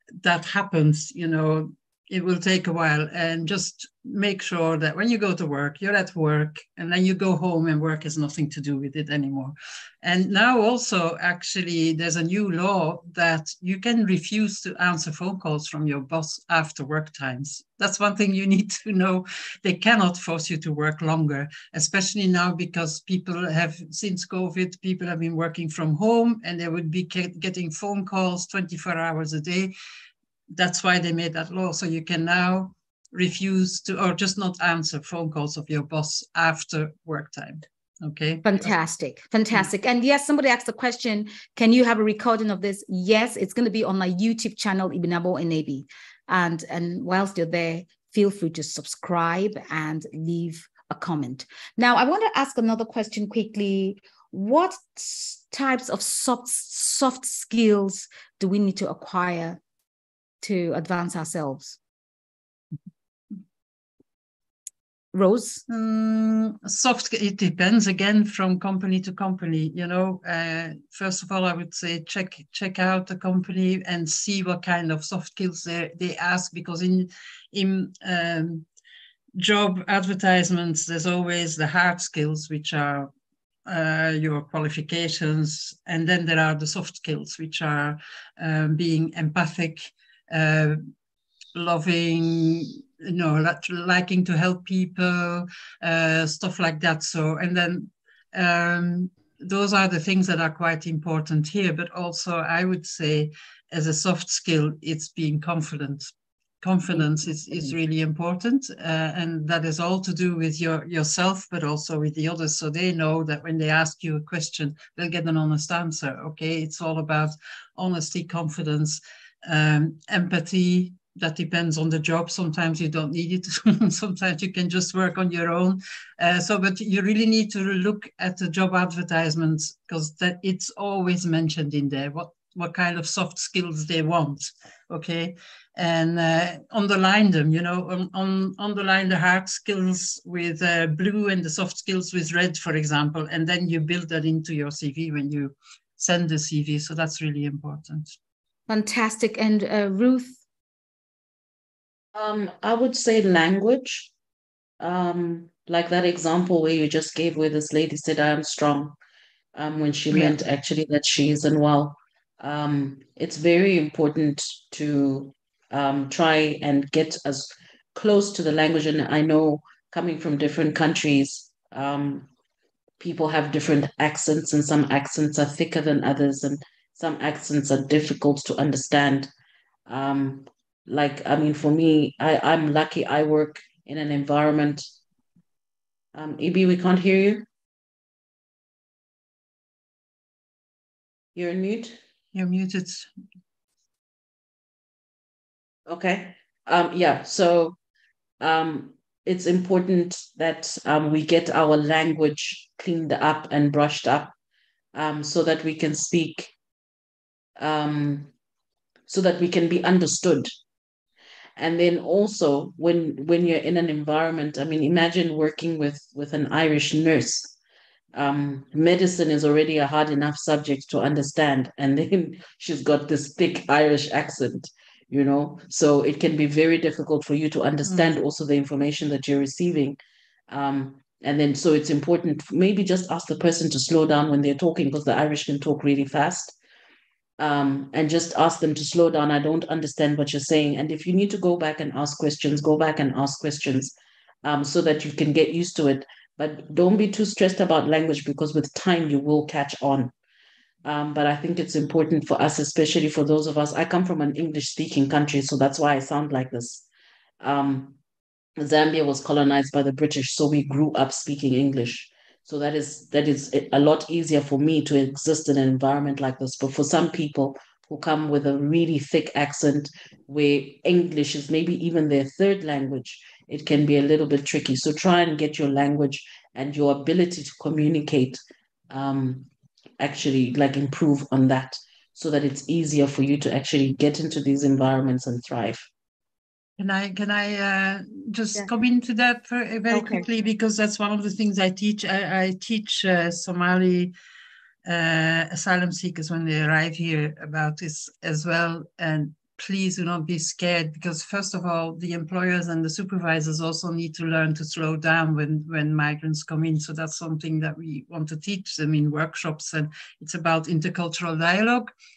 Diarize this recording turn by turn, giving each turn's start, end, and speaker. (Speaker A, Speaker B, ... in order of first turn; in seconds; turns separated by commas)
Speaker A: 0.2-29.7, Speaker A: 30.5-38.7, Speaker B: 38.4-59.6, Speaker B: 60.4-61.8, Speaker B: 65.1-65.6, Speaker A: 65.7-78.7, Speaker A: 79.3-83.1, Speaker A: 83.7-90.8, Speaker A: 91.5-106.1, Speaker A: 106.6-148.1, Speaker B: 148.7-150.4, Speaker C: 152.1-154.1, Speaker C: 154.8-158.9, Speaker C: 159.5-172.3, Speaker C: 173.0-179.3, Speaker C: 179.9-184.8, Speaker C: 186.1-187.5, Speaker C: 191.3-192.0, Speaker A: 192.3-193.1, Speaker C: 195.9-197.8, Speaker C: 198.4-204.3, Speaker C: 204.9-206.5, Speaker C: 207.6-208.3, Speaker C: 209.1-210.5, Speaker C: 211.6-217.5, Speaker C: 218.1-230.0, Speaker A: 227.8-228.1, Speaker C: 230.5-236.5, Speaker C: 237.4-250.1, Speaker C: 250.8-256.8, Speaker C: 257.4-258.0, Speaker C: 258.6-279.5, Speaker C: 280.0-285.9, Speaker A: 286.8-294.1, Speaker B: 289.9-290.2, Speaker A: 294.8-311.9